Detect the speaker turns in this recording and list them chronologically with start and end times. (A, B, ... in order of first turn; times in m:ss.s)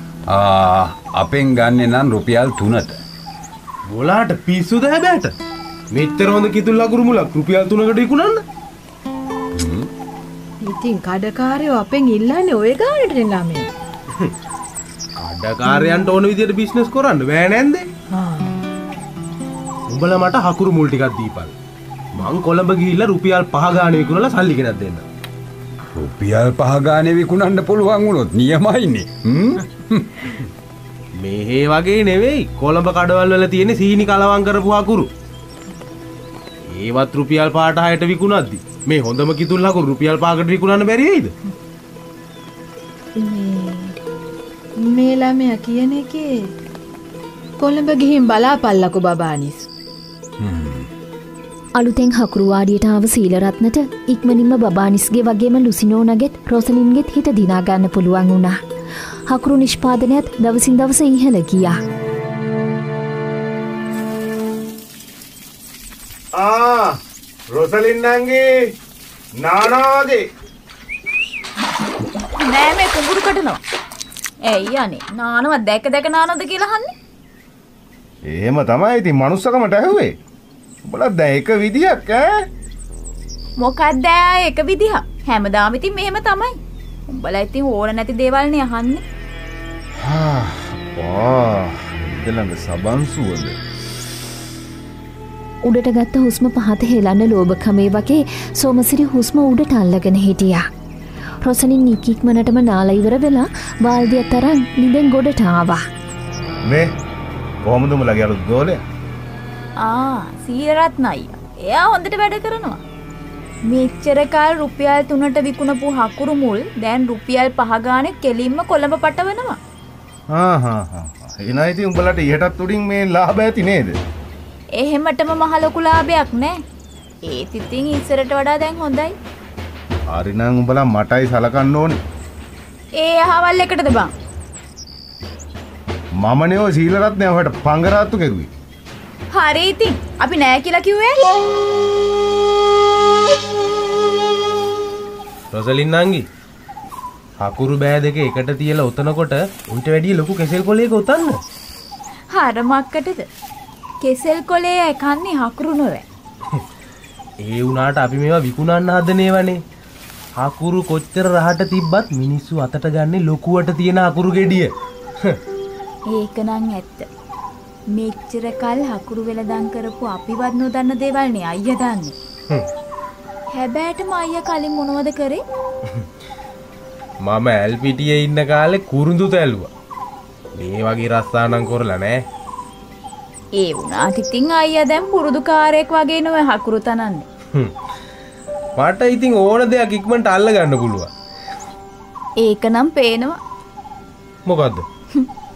0:00.3-0:03.0 A
0:03.9-0:05.3 B
0:05.9-0:08.4 B
0:09.6-0:09.9 A
0:10.6-0:13.7 C
0:15.2-0:17.9 B
0:18.1-0:18.6 C
0:19.9-0:21.6 B
0:22.2-0:25.0 B
0:25.9-0:30.5 A
0:31.2-0:35.1 B
0:36.7-0:41.3 B
0:43.2-0:44.0 C
0:44.8-0:46.5 C
0:47.6-0:49.7 C
0:50.4-0:50.9 A
0:51.8-0:58.6 D
0:59.3-1:01.8 D
1:06.4-1:07.0 E
1:07.5-1:08.7 E
1:09.4-1:10.2 E
1:12.4-1:13.6 F
1:14.4-1:16.9 F
1:18.3-1:20.2 E
1:20.8-1:22.4 E
1:23.6-1:29.0 F
1:30.0-1:33.6 E
1:35.6-1:40.7 D
1:41.4-1:45.8 D
1:46.6-1:46.9 E
1:47.6-1:48.8 E
1:49.8-1:52.8 F
1:53.7-1:59.6 F
2:00.3-2:04.0 E
2:04.7-2:06.6 F
2:07.2-2:09.2 F
2:10.1-2:12.0 E
2:12.9-2:14.1 F
2:16.2-2:18.5 E
2:19.3-2:21.2 F
2:25.5-2:26.2 B
2:27.4-2:31.4 B
2:32.3-2:33.3 F
2:34.0-2:36.1 F
2:37.4-2:39.6 B
2:40.4-2:45.4 B
2:46.1-2:47.1 F
2:47.9-2:52.2 F
2:53.5-2:55.4 F
2:57.2-2:59.7 B
3:00.6-3:02.2 B
3:03.6-3:07.3 F
3:08.8-3:11.1 B
3:12.4-3:13.4 F
3:14.4-3:14.8 B